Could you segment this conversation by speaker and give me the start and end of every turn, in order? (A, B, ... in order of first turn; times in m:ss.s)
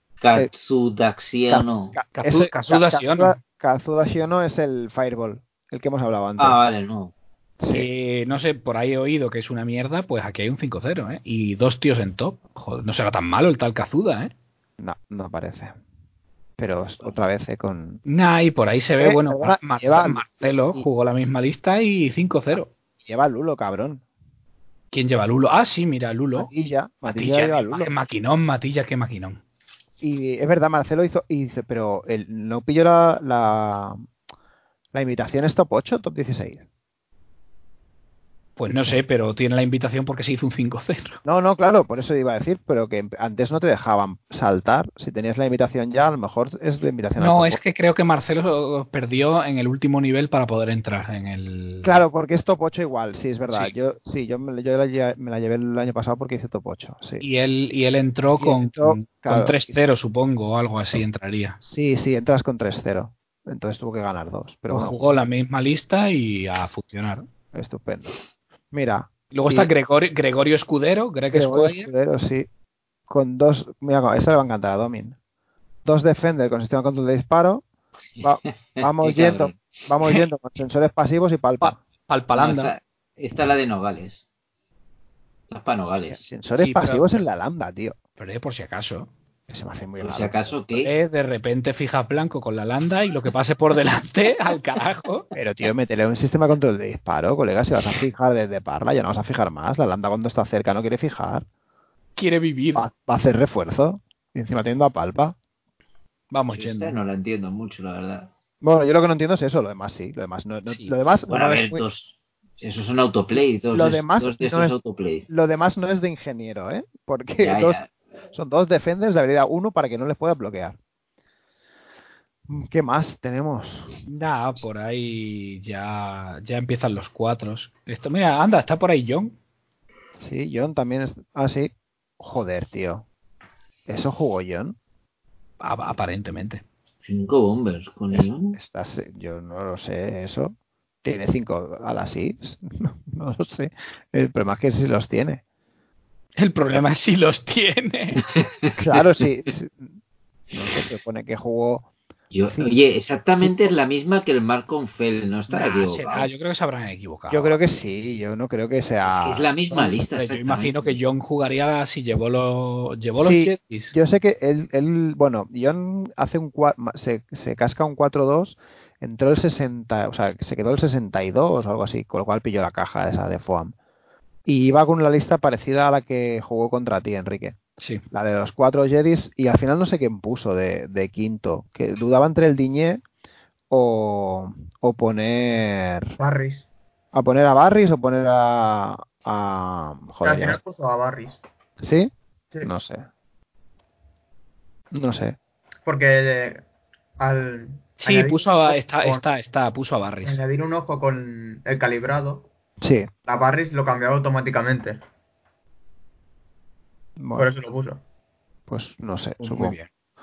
0:00.2-0:02.0 A
0:01.5-0:06.6 B
0:02.1-0:03.4 C
0:06.4-0:07.1 A
0:07.6-0:07.9 B
0:07.7-0:14.3 C
0:14.8-0:15.7 B
0:16.6-0:18.0 B
0:18.0-0:22.7 C
0:19.0-0:20.9 B
0:23.0-0:24.0 B
0:24.9-0:26.5 C
0:26.4-0:27.9 B
0:27.1-0:29.4 C
0:30.0-0:34.0 B
0:34.9-0:36.6 B
0:38.6-0:41.2 C
0:41.2-0:47.6 B
0:47.2-0:52.0 C
0:51.8-0:57.2 B
0:53.5-0:53.7 C
0:57.2-1:01.6 C
0:58.4-0:59.8 B
1:01.6-1:05.0 B
1:04.7-1:07.3 C
1:07.5-1:08.2 B
1:08.7-1:09.7 B
1:09.3-1:11.9 C
1:11.3-1:12.5 B
1:13.1-1:15.2 B
1:15.8-1:17.6 B
1:18.2-1:20.2 A
1:18.2-1:21.8 B
1:21.6-1:22.7 C
1:22.3-1:24.2 A
1:25.5-1:26.2 A
1:26.1-1:28.0 B
1:26.6-1:27.2 C
1:28.2-1:29.1 C
1:29.5-1:30.4 B
1:30.0-1:30.9 A
1:30.7-1:35.3 C
1:35.3-1:41.4 B
1:42.2-1:42.9 C
1:42.7-1:45.3 B
1:46.3-1:47.0 C
1:46.5-1:48.3 A
1:48.6-1:51.8 B
1:50.6-1:51.0 C
1:51.3-1:55.3 A
1:53.7-1:54.8 B
1:55.3-1:57.8 B
1:57.4-1:57.9 A
1:58.3-2:00.8 B
2:02.5-2:03.9 B
2:04.1-2:09.4 C
2:10.2-2:13.0 B
2:13.9-2:14.8 B
2:15.6-2:16.6 C
2:17.0-2:18.5 A
2:18.1-2:25.4 B
2:26.4-2:28.2 C
2:28.8-2:30.0 B
2:30.5-2:31.9 B
2:32.3-2:36.3 A
2:35.5-2:37.6 C
2:37.3-2:39.5 B
2:39.0-2:41.0 A
2:39.7-2:43.9 C
2:43.2-2:53.7 B
2:54.4-2:57.6 B
2:58.1-3:03.0 B
3:03.7-3:06.2 B
3:06.2-3:06.6 D
3:07.1-3:10.6 B
3:10.2-3:11.4 D
3:11.8-3:12.1 B
3:12.6-3:13.0 B
3:14.9-3:15.4 B
3:15.8-3:16.6 D
3:17.2-3:19.2 D
3:18.0-3:20.4 C
3:20.2-3:22.5 D
3:22.8-3:23.1 B
3:23.3-3:25.0 D
3:27.2-3:27.5 B
3:27.3-3:28.0 D
3:28.7-3:29.8 B
3:29.4-3:29.9 C